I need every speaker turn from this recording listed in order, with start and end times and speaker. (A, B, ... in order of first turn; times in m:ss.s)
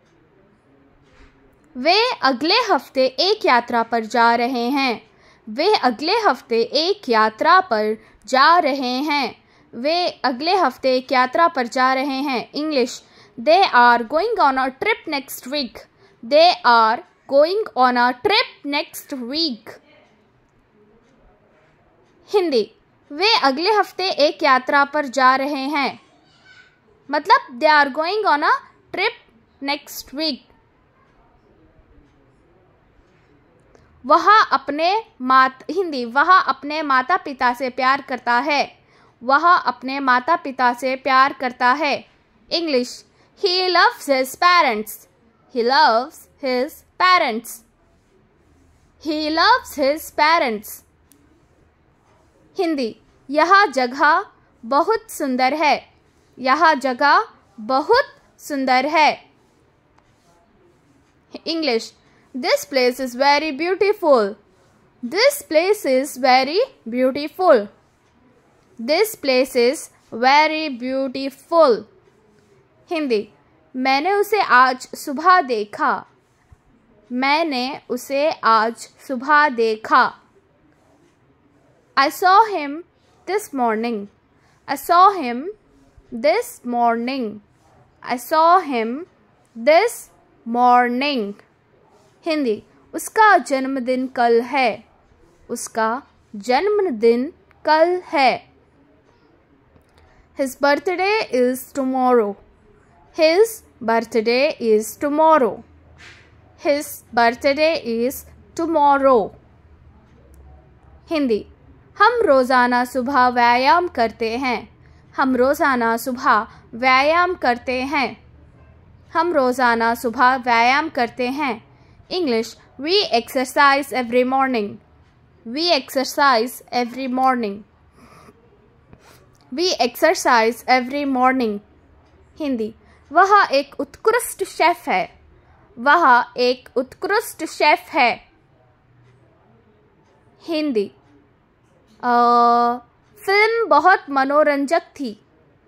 0:01.8-0:19.8 A
0:22.3-0:26.0 A
0:27.1-0:30.5 A
0:34.0-0:38.7 A
0:39.2-0:47.6 A
0:49.0-0:50.8 A
0:52.5-0:55.8 A
0:56.4-0:59.2 A
1:01.3-1:04.4 A
1:05.0-1:07.7 A
1:08.8-1:11.9 A
1:12.9-1:16.0 A
1:17.1-1:20.1 A
1:22.0-1:24.1 A
1:24.7-1:25.5 A
1:26.1-1:27.4 A
1:28.0-1:31.4 A
1:32.2-1:34.8 A
1:35.5-1:38.4 A
1:40.4-1:42.4 A
1:43.1-1:45.6 A
1:46.6-1:49.4 A
1:51.1-1:58.2 A
1:59.1-2:04.8 A
2:05.4-2:07.6 A
2:09.5-2:11.6 A
2:12.4-2:15.1 A
2:15.8-2:18.2 A
2:20.4-2:20.9 A
2:22.0-2:25.2 A